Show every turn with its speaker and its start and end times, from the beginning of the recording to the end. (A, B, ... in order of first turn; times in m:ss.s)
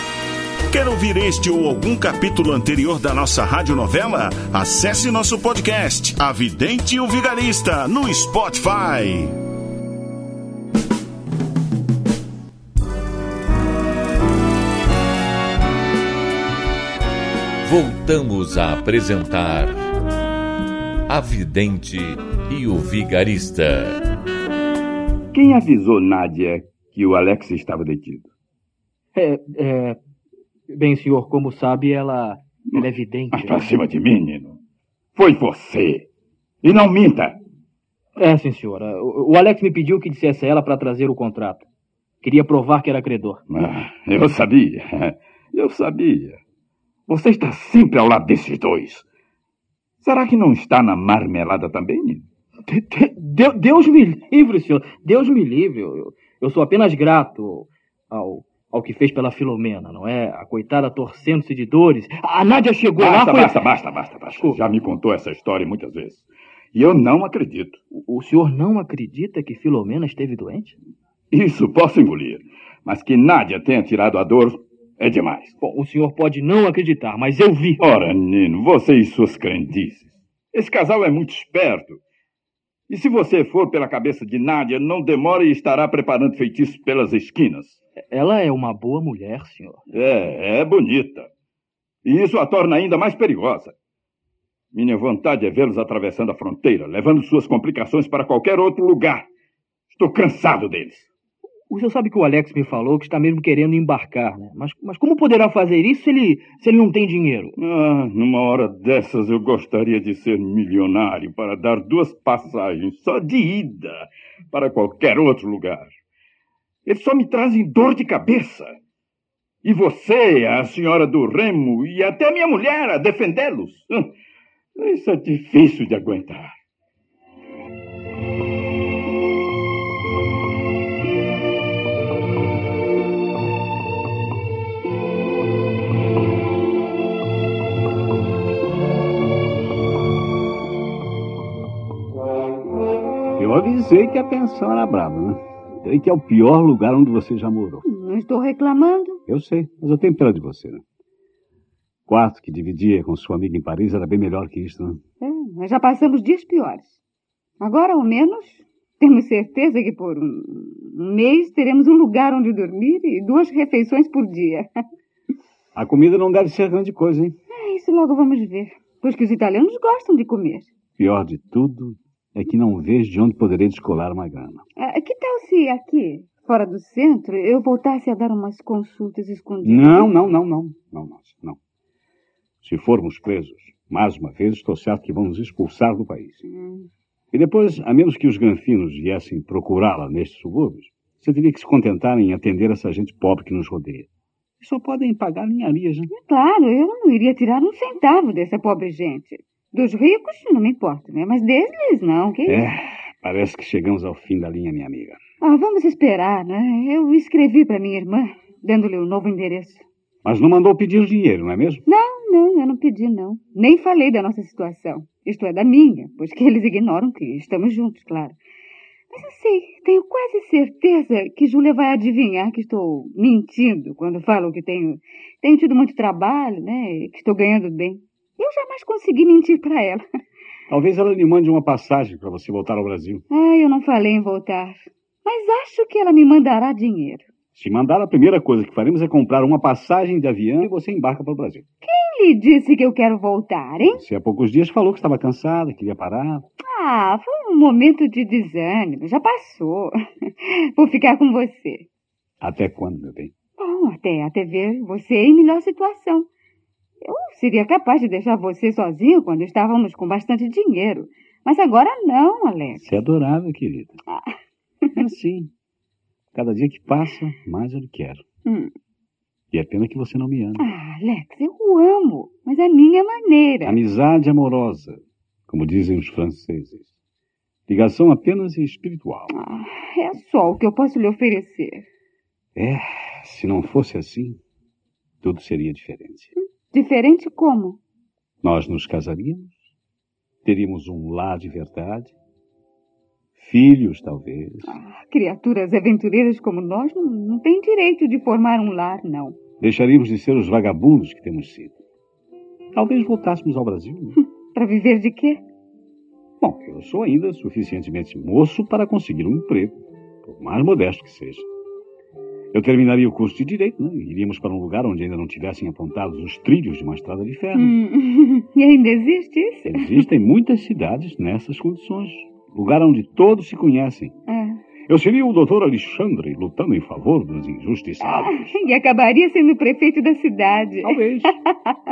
0:00.7-0:09.4 A
0:17.6-0:19.9 B
0:21.1-0:24.0 B
0:25.3-0:28.3 C
0:29.1-0:30.0 D
0:30.7-0:33.7 D
0:33.3-0:34.6 C
0:35.1-0:36.1 C
0:36.6-0:37.4 C
0:38.2-0:41.6 D
0:42.2-0:43.4 D
0:43.5-0:46.4 C
0:47.1-0:49.0 C
0:50.0-0:52.2 C
0:52.7-1:03.7 D
1:03.0-1:07.8 C
1:07.9-1:10.8 D
1:11.3-1:15.5 C
1:15.6-1:17.8 D
1:17.8-1:22.0 C
1:22.9-1:27.8 C
1:28.1-1:29.8 D
1:29.9-1:31.3 C
1:32.0-1:33.7 C
1:34.7-1:39.3 C
1:39.9-1:41.1 C
1:41.7-1:47.6 D
1:47.6-1:55.9 C
1:56.8-1:58.8 C
1:59.6-2:04.1 C
2:04.8-2:06.5 C
2:23.4-2:27.8 E
2:27.8-2:29.2 F
2:29.3-2:30.8 E
2:32.1-2:35.0 E
2:35.2-2:37.0 F
2:37.6-2:44.7 F
2:45.7-2:47.4 E
2:47.5-2:50.7 F
2:51.0-2:54.6 E
2:54.8-3:00.1 F
2:59.6-3:01.6 E
3:02.6-3:06.4 E
3:06.5-3:06.9 F
3:07.3-3:14.1 E
3:14.6-3:16.1 E
3:16.1-3:22.7 F
3:22.4-3:25.2 E
3:25.4-3:29.8 F
3:30.2-3:31.8 E
3:31.8-3:38.4 F
3:39.1-3:50.0 F
3:50.7-3:53.2 E
3:53.3-3:57.2 F
3:57.5-4:01.6 E
4:01.8-4:04.0 F
4:03.9-4:06.4 E
4:06.6-4:11.8 F
4:12.4-4:13.3 E
4:13.6-4:16.3 F
4:17.0-4:22.9 F
4:22.8-4:24.0 E
4:25.0-4:25.5 E
4:26.3-4:28.2 E
4:28.4-4:28.7 F
4:29.5-4:30.6 E
4:30.6-4:33.8 F
4:33.6-4:36.9 E
4:37.7-4:39.3 E
4:39.3-4:41.9 F
4:42.6-4:44.4 E
4:45.2-4:46.3 E
4:46.7-4:47.8 F
4:48.4-4:49.6 E
4:50.4-4:52.1 E
4:53.4-4:54.8 E
4:54.7-4:59.4 F
4:59.6-5:01.8 E
5:02.7-5:04.2 E
5:04.5-5:05.4 F
5:06.4-5:11.4 E
5:12.5-5:17.8 E
5:17.5-5:20.0 F
5:19.6-5:24.1 E
5:24.3-5:24.6 F
5:24.9-5:28.5 E
5:28.0-5:31.7 F
5:30.8-5:31.3 E